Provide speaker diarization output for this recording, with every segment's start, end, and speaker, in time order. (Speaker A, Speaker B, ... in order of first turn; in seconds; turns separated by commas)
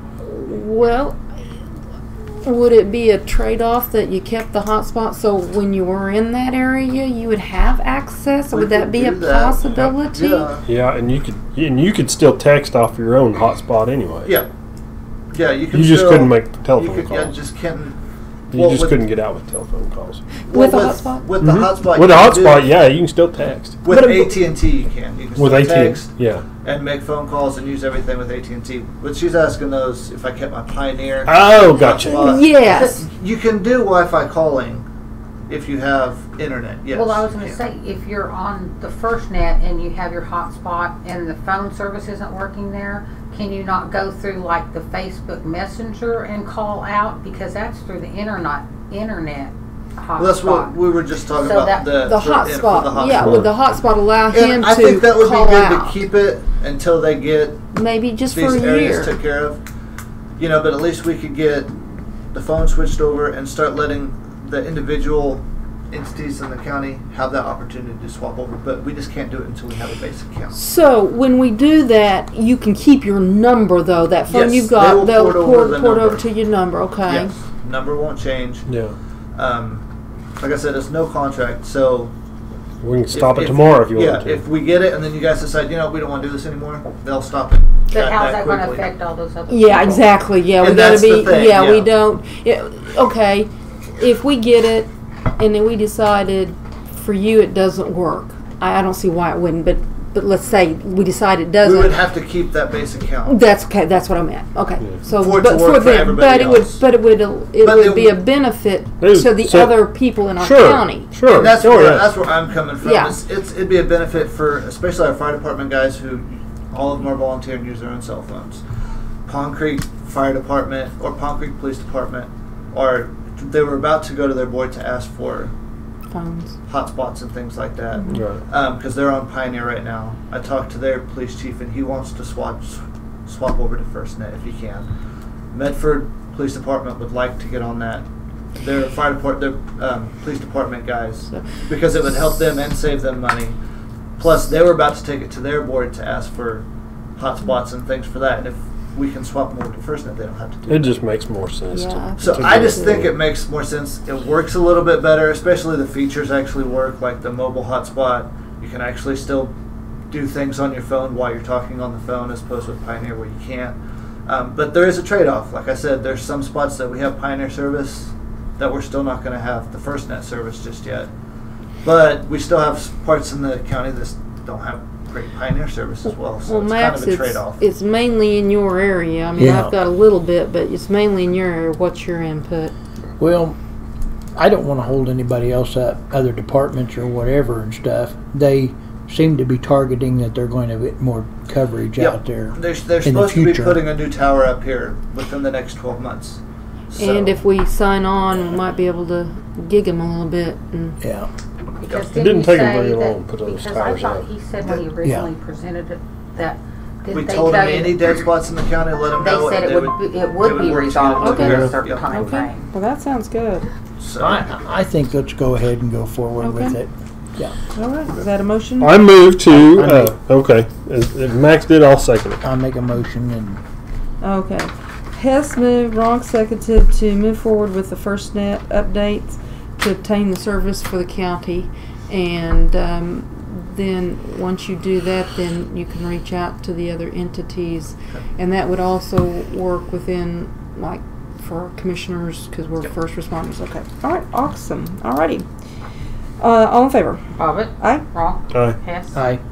Speaker A: 0.2-1.2, Speaker A: 2.4-10.5, Speaker B: 8.5-10.7, Speaker C: 10.7-14.4, Speaker B: 15.3-18.0, Speaker C: 15.7-17.4, Speaker B: 18.5-19.0, Speaker C: 18.5-20.2, Speaker B: 20.5-22.7, Speaker A: 20.5-21.3, Speaker C: 21.4-24.3, Speaker B: 23.8-34.9, Speaker C: 25.4-26.5, Speaker C: 31.3-32.4, Speaker A: 32.1-33.0, Speaker B: 35.5-37.6, Speaker D: 36.9-50.7, Speaker B: 50.2-53.5, Speaker D: 51.4-51.9, Speaker A: 52.0-56.0, Speaker C: 53.2-53.5, Speaker B: 54.3-57.6, Speaker A: 57.7-59.2, Speaker B: 58.3-59.6, Speaker B: 60.4-61.7, Speaker B: 62.3-70.6, Speaker A: 70.5-77.3, Speaker B: 74.3-76.2, Speaker B: 77.1-78.7, Speaker C: 78.7-79.0, Speaker B: 79.3-79.8, Speaker B: 80.4-82.1, Speaker C: 82.8-84.4, Speaker B: 83.1-88.9, Speaker D: 87.9-90.2, Speaker A: 89.5-102.0, Speaker B: 90.6-91.9, Speaker B: 101.6-103.4, Speaker A: 103.3-111.6, Speaker B: 105.1-106.8, Speaker B: 107.6-108.2, Speaker C: 109.0-112.1, Speaker B: 111.3-118.6, Speaker A: 112.8-113.2, Speaker B: 119.3-125.5, Speaker A: 126.1-126.6, Speaker B: 126.7-134.9, Speaker C: 128.1-128.4, Speaker B: 135.5-138.1, Speaker B: 138.6-143.6, Speaker B: 144.2-146.7, Speaker B: 147.2-151.0, Speaker C: 150.7-153.1, Speaker A: 151.7-153.1, Speaker B: 152.2-159.5, Speaker B: 160.1-171.1, Speaker B: 171.8-177.6, Speaker A: 176.5-182.7, Speaker E: 179.4-179.7, Speaker E: 183.2-183.6, Speaker E: 184.3-193.8, Speaker B: 192.0-197.4, Speaker A: 197.0-201.0, Speaker E: 201.0-201.3, Speaker D: 201.8-208.1, Speaker B: 201.9-202.2, Speaker C: 202.1-204.3, Speaker B: 207.1-212.2, Speaker D: 209.2-212.6, Speaker A: 211.2-213.7, Speaker C: 211.4-212.3, Speaker B: 214.0-214.5, Speaker E: 214.2-217.6, Speaker A: 216.4-216.8, Speaker A: 217.7-219.0, Speaker C: 218.8-222.4, Speaker E: 219.5-220.1, Speaker E: 222.4-223.6, Speaker A: 224.2-245.5, Speaker A: 246.4-247.2, Speaker D: 247.4-249.2, Speaker A: 247.8-248.1, Speaker E: 249.2-249.4